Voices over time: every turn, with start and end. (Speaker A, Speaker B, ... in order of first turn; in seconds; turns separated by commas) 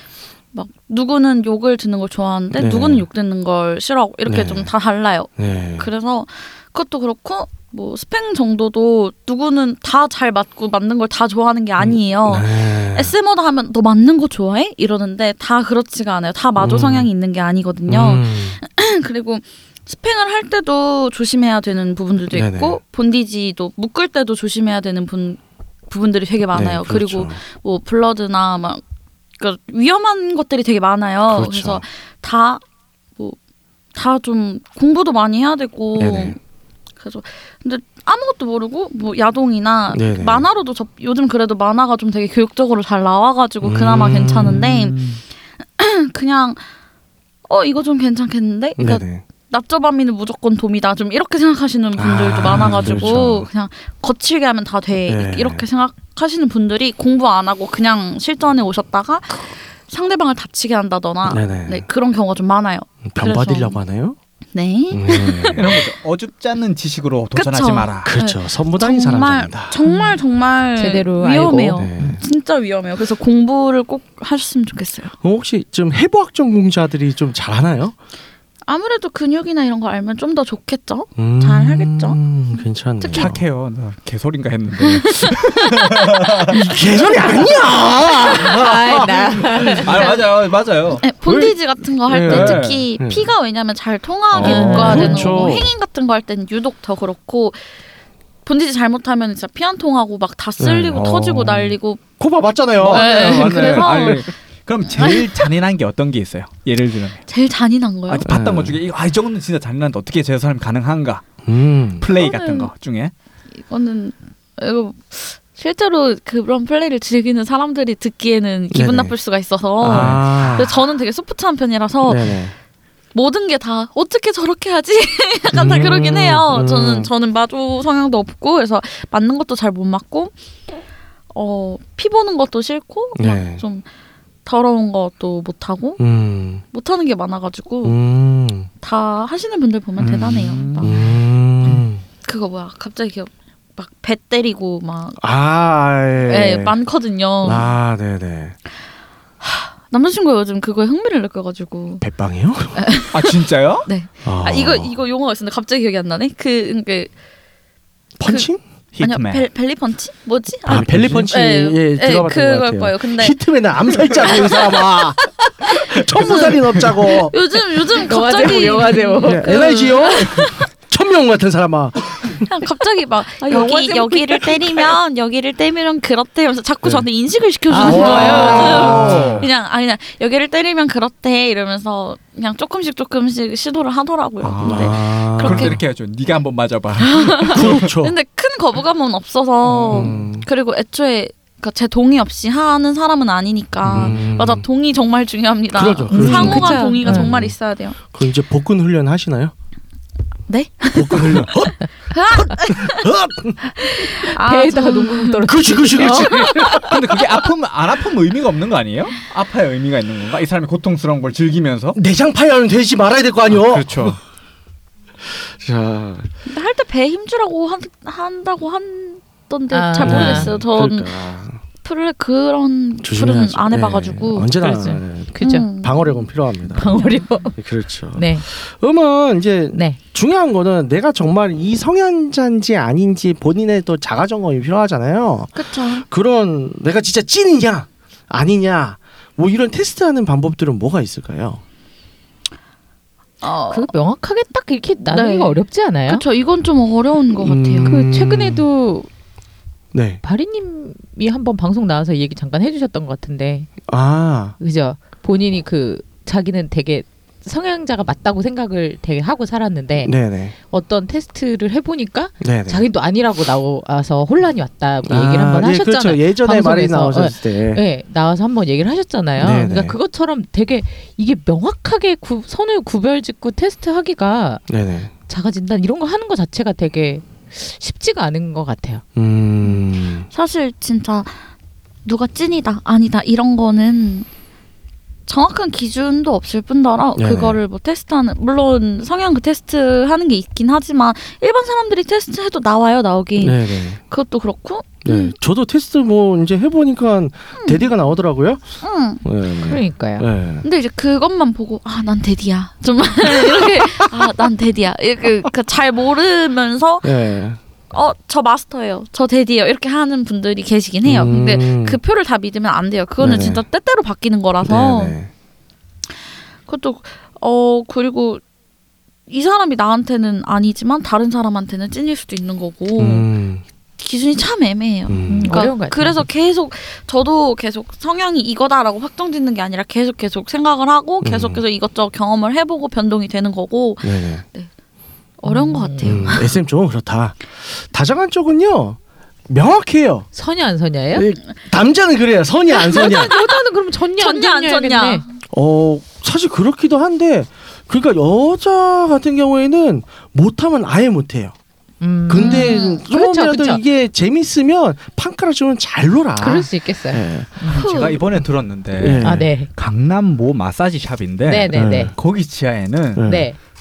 Speaker A: 0.5-28.8, Speaker B: 2.5-3.0, Speaker B: 4.2-4.7, Speaker B: 5.3-5.9, Speaker B: 11.8-13.1, Speaker B: 16.6-17.1, Speaker B: 17.9-18.6, Speaker B: 22.3-22.8, Speaker B: 26.5-27.4, Speaker A: 29.4-32.6, Speaker B: 31.3-31.8, Speaker A: 33.9-36.4, Speaker B: 36.0-36.4, Speaker A: 37.0-45.0, Speaker B: 39.9-40.5, Speaker B: 43.6-44.7, Speaker C: 44.3-45.2, Speaker A: 45.6-46.7, Speaker A: 47.5-63.8, Speaker B: 48.8-49.2, Speaker B: 51.9-53.5, Speaker B: 55.1-55.6, Speaker B: 61.2-61.9, Speaker B: 63.0-64.2, Speaker A: 64.5-65.8, Speaker B: 64.9-65.8, Speaker C: 65.5-68.1, Speaker A: 67.3-75.1, Speaker B: 68.0-69.8, Speaker D: 69.8-70.2, Speaker D: 70.8-71.9, Speaker B: 71.7-72.2, Speaker B: 75.2-77.9, Speaker A: 78.7-82.2, Speaker B: 81.2-83.4, Speaker A: 83.0-83.3, Speaker C: 83.1-89.0, Speaker A: 84.8-85.9, Speaker A: 86.5-87.4, Speaker B: 86.5-90.1, Speaker D: 88.4-90.1, Speaker C: 89.6-91.0, Speaker A: 91.0-97.6, Speaker B: 91.2-91.5, Speaker B: 92.0-93.3, Speaker C: 92.2-92.8, Speaker C: 94.3-95.1, Speaker B: 94.3-95.8, Speaker D: 94.4-95.6, Speaker A: 98.4-102.0, Speaker B: 100.6-104.3, Speaker C: 102.8-107.2, Speaker A: 102.8-104.2, Speaker A: 104.9-105.3, Speaker A: 107.3-108.2, Speaker C: 108.1-111.2, Speaker B: 108.2-108.8, Speaker B: 111.4-112.1, Speaker C: 112.0-113.1, Speaker A: 112.1-112.7, Speaker A: 113.6-122.3, Speaker B: 118.7-119.1, Speaker B: 119.8-120.8, Speaker C: 119.9-120.6, Speaker B: 122.0-122.5, Speaker A: 123.1-130.3, Speaker B: 125.5-127.1, Speaker A: 131.3-133.8, Speaker B: 133.2-133.6, Speaker A: 134.4-136.0, Speaker B: 136.0-136.6, Speaker A: 136.7-138.0, Speaker B: 137.8-138.7, Speaker A: 138.8-141.0, Speaker C: 140.0-140.9, Speaker B: 140.8-142.0, Speaker A: 142.2-145.2, Speaker B: 145.2-146.8, Speaker A: 146.2-147.7, Speaker B: 147.4-148.6, Speaker A: 149.4-152.0, Speaker B: 152.0-152.9, Speaker A: 152.7-157.1, Speaker C: 153.1-153.9, Speaker B: 154.2-154.9, Speaker B: 158.2-158.6, Speaker C: 158.9-159.5, Speaker A: 159.0-163.4, Speaker B: 160.7-167.3, Speaker C: 160.7-161.3, Speaker A: 164.0-164.8, Speaker A: 165.7-170.6, Speaker C: 166.3-166.9, Speaker D: 167.9-169.6, Speaker B: 169.2-172.5, Speaker A: 172.5-185.8, Speaker D: 173.4-174.8, Speaker D: 177.7-178.9, Speaker B: 177.8-179.5, Speaker C: 177.8-179.5, Speaker B: 184.4-185.8, Speaker C: 184.6-187.9, Speaker A: 187.0-198.0, Speaker B: 187.5-188.1, Speaker C: 189.6-190.2, Speaker B: 189.9-190.4, Speaker C: 193.8-194.2, Speaker B: 193.9-194.6, Speaker B: 195.7-197.5, Speaker D: 196.1-197.3, Speaker B: 198.1-199.5, Speaker A: 200.5-203.1, Speaker B: 200.9-203.6, Speaker A: 203.8-206.9, Speaker D: 204.2-206.7, Speaker B: 205.4-207.2, Speaker C: 206.7-212.0, Speaker B: 211.9-214.2, Speaker C: 213.5-214.2, Speaker B: 215.2-216.3, Speaker A: 216.4-221.1, Speaker D: 219.7-220.5, Speaker B: 220.0-221.6, Speaker A: 221.8-224.6, Speaker B: 223.0-241.6, Speaker D: 224.6-225.7, Speaker A: 225.4-226.2, Speaker D: 226.7-227.6, Speaker A: 226.9-227.2, Speaker D: 228.1-228.4, Speaker D: 229.7-230.0, Speaker A: 235.5-236.1, Speaker A: 243.4-243.9, Speaker D: 243.7-246.2, Speaker A: 245.0-247.9, Speaker B: 247.3-248.7, Speaker D: 247.9-249.1, Speaker B: 249.9-250.2, Speaker D: 250.2-253.7, Speaker B: 253.8-254.6, Speaker D: 254.6-260.1, Speaker B: 260.0-260.5, Speaker D: 260.7-274.6, Speaker B: 262.4-262.8, Speaker B: 265.0-267.8, Speaker B: 269.4-270.0, Speaker B: 274.7-275.1, Speaker D: 275.3-279.0, Speaker B: 279.1-280.3, Speaker A: 280.3-281.4, Speaker A: 282.0-284.3, Speaker A: 285.3-295.3, Speaker B: 287.2-287.6, Speaker B: 293.4-294.0, Speaker B: 295.0-300.6, Speaker A: 297.6-297.9, Speaker A: 298.8-299.2, Speaker D: 299.6-300.2, Speaker A: 300.6-307.2, Speaker B: 303.3-304.3, Speaker B: 307.0-307.6, Speaker A: 307.9-315.1, Speaker B: 311.0-312.0, Speaker B: 313.2-313.6, Speaker B: 314.6-315.3, Speaker A: 316.6-318.4, Speaker A: 319.3-323.3, Speaker B: 322.9-323.6, Speaker A: 324.0-334.7, Speaker B: 325.1-325.7, Speaker D: 325.3-326.2, Speaker B: 331.2-331.6, Speaker B: 334.0-334.4, Speaker A: 335.4-336.5, Speaker D: 335.4-336.4, Speaker B: 336.0-340.3, Speaker D: 340.3-341.3, Speaker B: 341.1-343.4, Speaker A: 342.7-343.4, Speaker D: 342.8-345.2, Speaker A: 344.2-345.2, Speaker B: 345.5-351.5, Speaker D: 352.0-353.8, Speaker B: 352.3-357.8, Speaker A: 352.3-353.0, Speaker D: 356.4-357.8, Speaker A: 357.7-358.2, Speaker C: 357.7-363.3, Speaker B: 359.0-359.5, Speaker D: 359.2-359.7, Speaker D: 361.5-362.1, Speaker B: 361.7-362.1, Speaker B: 363.1-363.5, Speaker D: 363.2-363.6